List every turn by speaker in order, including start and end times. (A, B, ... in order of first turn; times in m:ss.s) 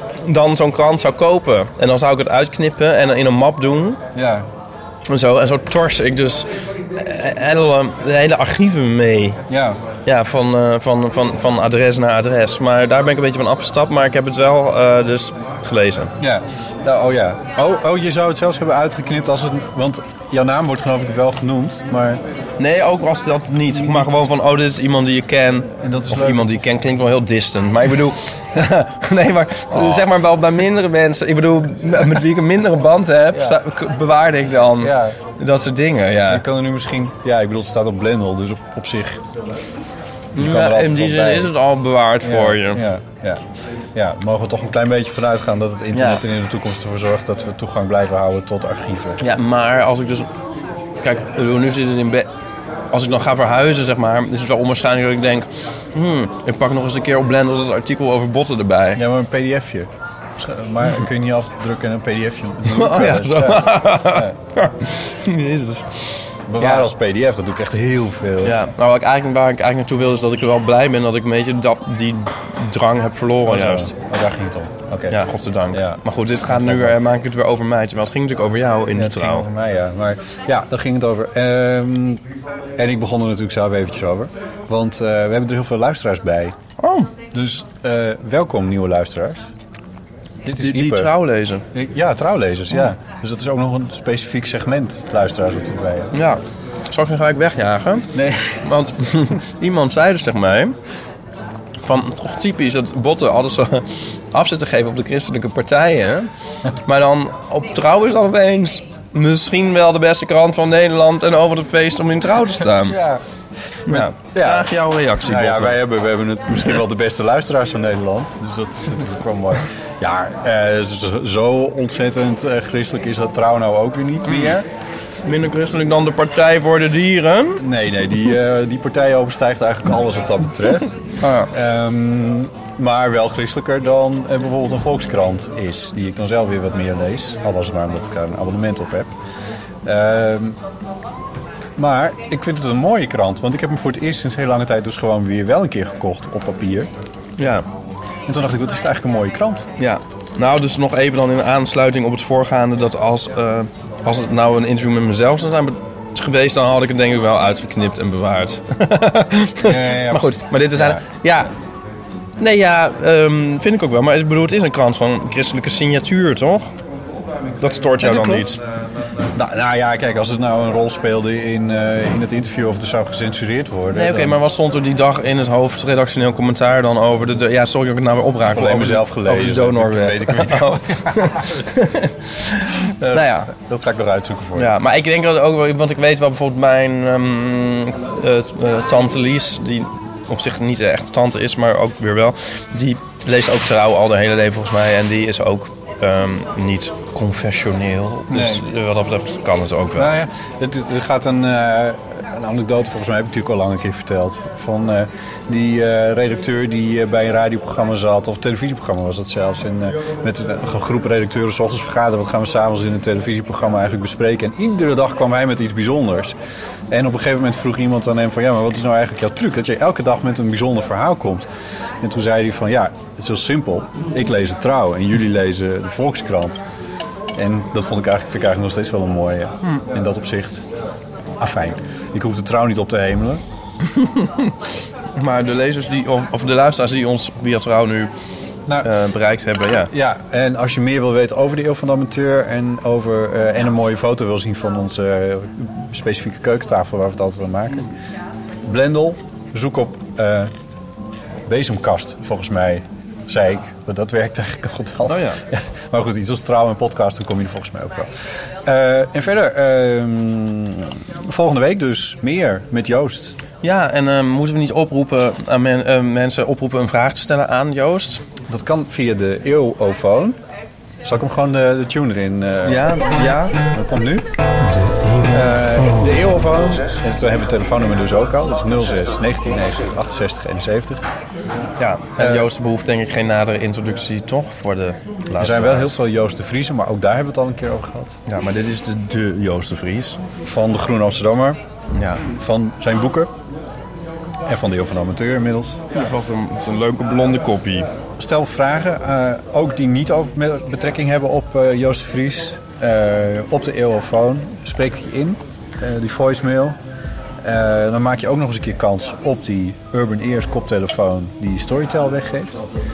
0:00.2-0:04.0 A
0:04.1-0:04.5 B
0:05.1-0:09.4 A
0:09.5-0:09.8 B
0:10.1-0:16.1 A
0:16.2-0:22.2 B
0:22.6-0:36.4 A
0:23.7-0:24.1 B
0:25.8-0:26.7 B
0:29.7-0:30.1 B
0:34.8-0:35.2 B
0:36.3-0:39.2 B
0:40.3-0:41.5 B
0:40.4-0:42.8 A
0:42.2-0:49.3 B
0:45.9-0:46.2 A
0:49.2-0:50.3 A
0:51.0-0:52.3 A
0:52.9-0:59.0 A
0:59.0-1:04.4 B
1:02.7-1:06.9 A
1:06.5-1:08.6 B
1:08.4-1:13.9 A
1:13.5-1:15.2 B
1:15.1-1:19.5 A
1:15.7-1:17.0 B
1:18.9-1:22.2 B
1:22.8-1:26.6 B
1:26.8-1:27.1 A
1:27.3-1:29.5 B
1:30.4-1:31.1 B
1:30.6-1:31.6 A
1:31.7-1:36.1 B
1:36.1-1:38.1 A
1:38.1-1:38.7 B
1:38.6-1:40.8 A
1:41.8-1:46.3 A
1:46.8-1:53.0 A
1:52.8-1:53.2 B
1:53.8-2:04.7 B
1:53.9-1:55.8 A
2:04.2-2:04.6 A
2:05.2-2:07.6 A
2:07.6-2:19.1 B
2:11.2-2:11.5 A
2:19.8-2:20.6 B
2:21.8-2:26.9 B
2:27.4-2:27.7 A
2:28.3-2:29.7 B
2:29.8-2:41.5 A
2:39.6-2:41.0 B
2:42.4-2:46.7 A
2:47.6-2:48.6 A
2:48.0-2:48.5 B
2:49.3-2:54.4 B
2:53.9-3:03.5 A
2:58.4-3:01.6 B
3:03.1-3:04.8 B
3:04.6-3:20.1 A
3:18.3-3:18.6 B
3:20.0-3:36.4 B
3:36.9-3:41.5 B
3:42.0-3:46.6 B
3:47.4-3:50.7 B
3:51.4-3:53.4 B
3:53.9-3:54.5 A
3:55.2-3:58.1 A
3:58.8-3:59.9 A
3:59.8-4:07.9 B
4:08.6-4:10.5 B
4:11.5-4:18.1 B
4:15.1-4:15.4 A
4:18.6-4:23.4 B
4:23.6-4:28.2 A
4:28.5-4:30.4 B
4:31.0-4:33.0 B
4:32.6-4:33.6 A
4:33.7-4:34.3 B
4:34.9-4:36.0 A
4:35.3-4:41.0 B
4:41.8-4:46.0 A
4:42.2-4:42.5 B
4:45.4-4:48.2 B
4:48.3-4:50.2 A
4:50.4-4:51.6 B
4:52.0-4:52.2 A
4:52.3-4:53.3 B
4:54.5-4:55.8 B
4:55.9-4:57.9 A
4:58.2-5:06.8 B
5:07.4-5:12.6 B